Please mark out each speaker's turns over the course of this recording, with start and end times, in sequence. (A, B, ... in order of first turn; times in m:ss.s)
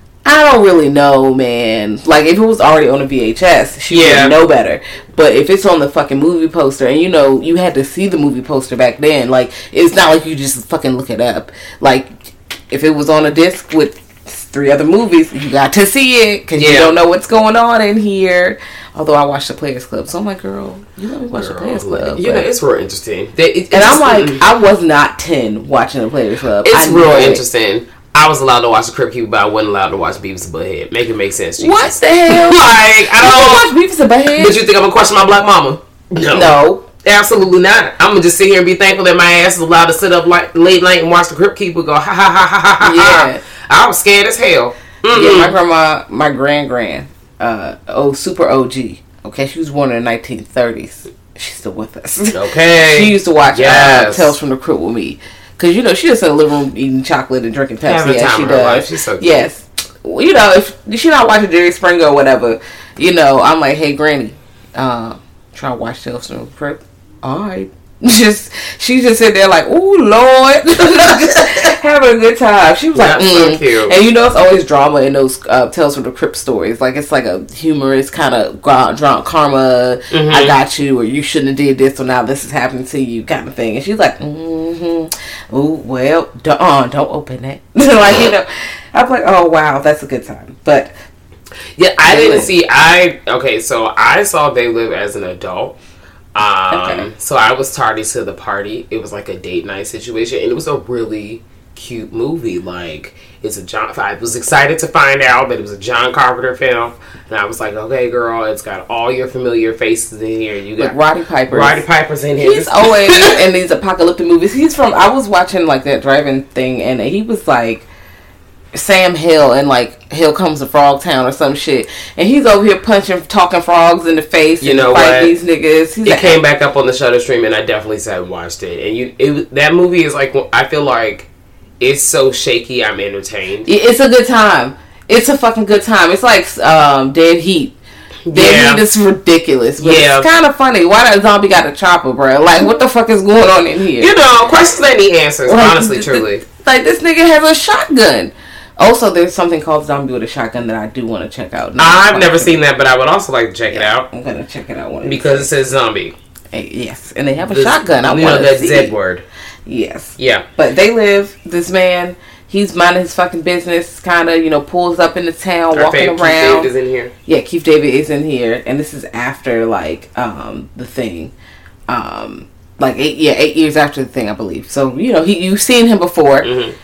0:00.2-0:22.5 A
0:03.9-0:04.4 B
0:16.6-0:16.9 B
0:21.3-0:24.4 B
0:23.7-0:27.4 A
0:26.6-0:33.7 B
0:31.6-0:34.6 A
0:34.4-0:45.6 B
0:36.3-0:36.8 A
0:42.8-0:43.4 A
0:45.1-1:30.9 A
0:52.3-0:54.4 B
0:57.8-0:59.5 B
1:12.9-1:13.9 B
1:20.1-1:20.6 B
1:31.8-1:35.8 B
1:32.0-1:32.5 A
1:36.3-1:50.9 B
1:36.7-1:37.1 A
1:50.8-1:51.8 A
1:51.5-1:53.3 B
1:52.4-1:57.8 A
1:58.7-2:06.4 A
2:04.6-2:05.3 B
2:06.0-2:11.3 B
2:11.8-2:13.7 B
2:13.6-2:17.8 A
2:18.3-2:18.8 B
2:18.3-2:24.1 A
2:19.8-2:20.3 B
2:24.0-2:26.4 B
2:25.4-2:32.6 A
2:31.8-2:34.1 B
2:33.7-2:35.5 A
2:35.0-2:36.1 B
2:36.5-2:38.9 A
2:37.5-2:39.2 B
2:39.6-2:46.7 A
2:40.2-2:40.4 B
2:45.7-2:47.1 B
2:47.2-2:51.3 A
2:51.9-2:56.5 A
2:56.4-2:56.7 B